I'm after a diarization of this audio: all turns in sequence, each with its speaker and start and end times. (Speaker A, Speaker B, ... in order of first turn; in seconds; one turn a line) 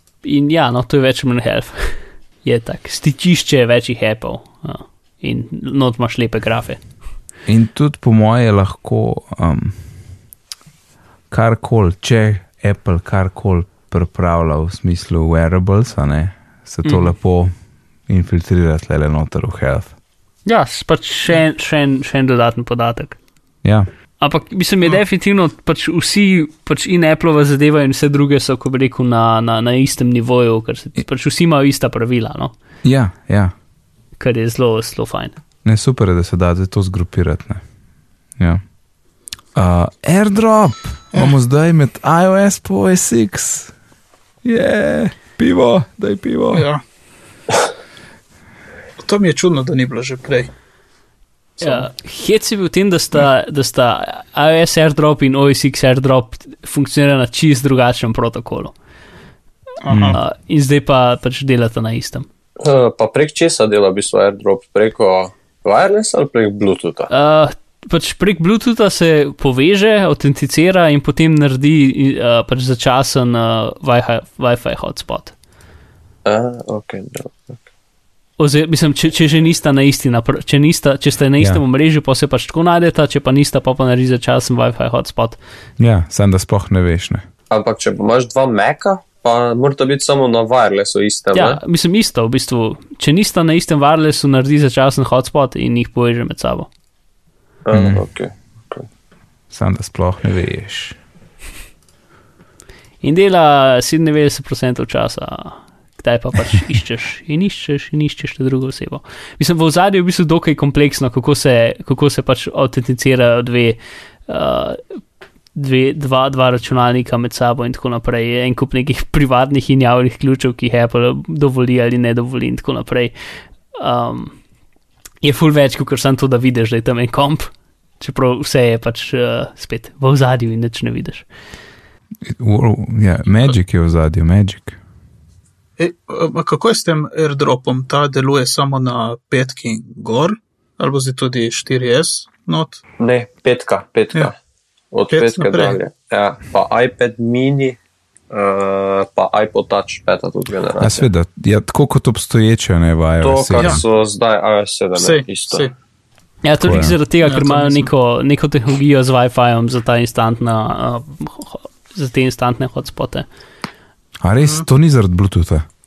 Speaker A: 0.2-6.8
Speaker B: 7.5-9.8
Speaker B: 11.3-17.5
Speaker A: 16.9-17.1
Speaker B: 18.1-19.9
Speaker A: 20.5-23.2
Speaker A: 24.2-32.5
Speaker B: 32.8-33.5
Speaker A: 34.2-35.3
Speaker B: 35.6-37.6
Speaker B: 39.5-43.7
Speaker B: 44.4-46.7
Speaker C: 46.5-46.8
Speaker C: 49.0-50.5
Speaker C: 51.6-51.9
Speaker A: 51.6-58.7
Speaker C: 59.8-60.2
Speaker B: 59.9-60.2
Speaker A: 60.1-62.3
Speaker D: 62.6-67.1
Speaker A: 67.1-75.3
Speaker D: 76.2-77.6
Speaker A: 78.4-85.4
Speaker B: 85.8-87.2
Speaker D: 87.5-91.6
Speaker A: 91.3-96.7
Speaker D: 97.7-98.9
Speaker B: 97.7-98.0
Speaker B: 99.5-101.0
Speaker A: 103.0-114.8
Speaker A: 115.5-123.1
Speaker A: 123.8-124.3
Speaker A: 125.2-131.3
Speaker B: 132.2-134.8
Speaker C: 135.8-142.8
Speaker D: 143.0-144.4
Speaker D: 144.9-147.8
Speaker C: 145.1-145.8
Speaker D: 148.3-151.1
Speaker B: 150.8-153.8
Speaker D: 153.2-155.7
Speaker C: 155.0-155.7
Speaker A: 156.4-163.3
Speaker B: 156.6-156.9
Speaker C: 157.2-157.9
Speaker B: 164.2-165.6